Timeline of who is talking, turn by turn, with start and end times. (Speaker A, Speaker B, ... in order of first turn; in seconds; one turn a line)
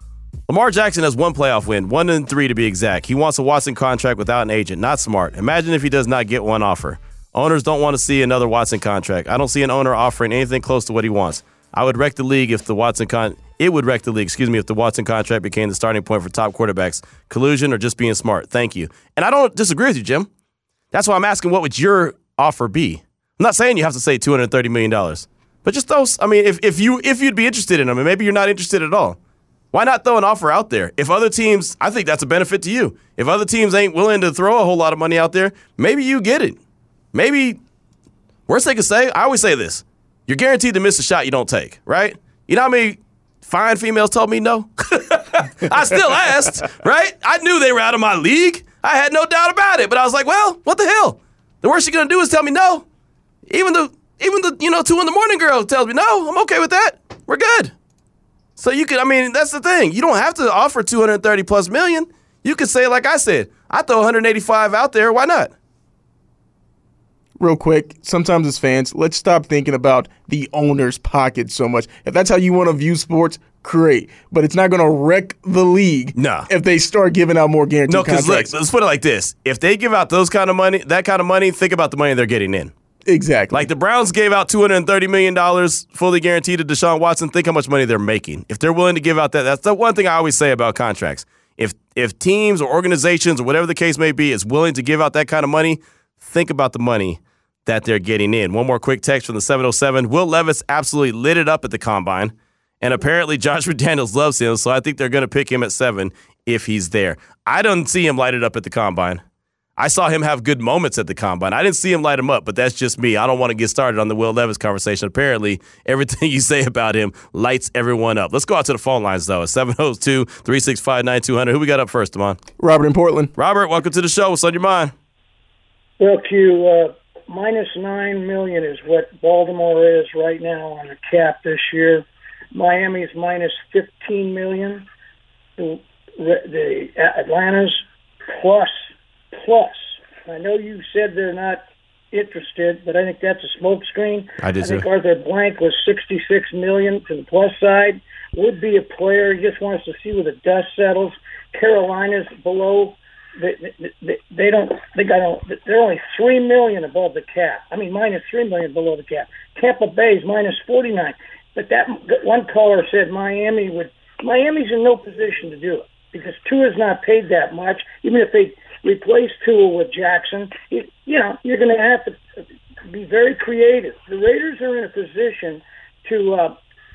Speaker A: 0.5-20.3
Speaker A: 20.9-29.2
Speaker A: 29.7-36.6
Speaker A: 37.1-37.6
Speaker A: 38.5-52.8
Speaker A: 53.5-57.7
Speaker A: 58.6-65.5
Speaker B: 67.4-78.5
Speaker A: 76.2-76.5
Speaker A: 77.9-82.7
Speaker B: 83.1-83.7
Speaker A: 83.5-109.2
Speaker A: 109.8-122.4
Speaker B: 122.6-123.3
Speaker A: 123.4-124.9
Speaker C: 126.0-134.8
Speaker C: 135.6-172.2
Speaker A: 144.4-144.8
Speaker C: 172.9-176.6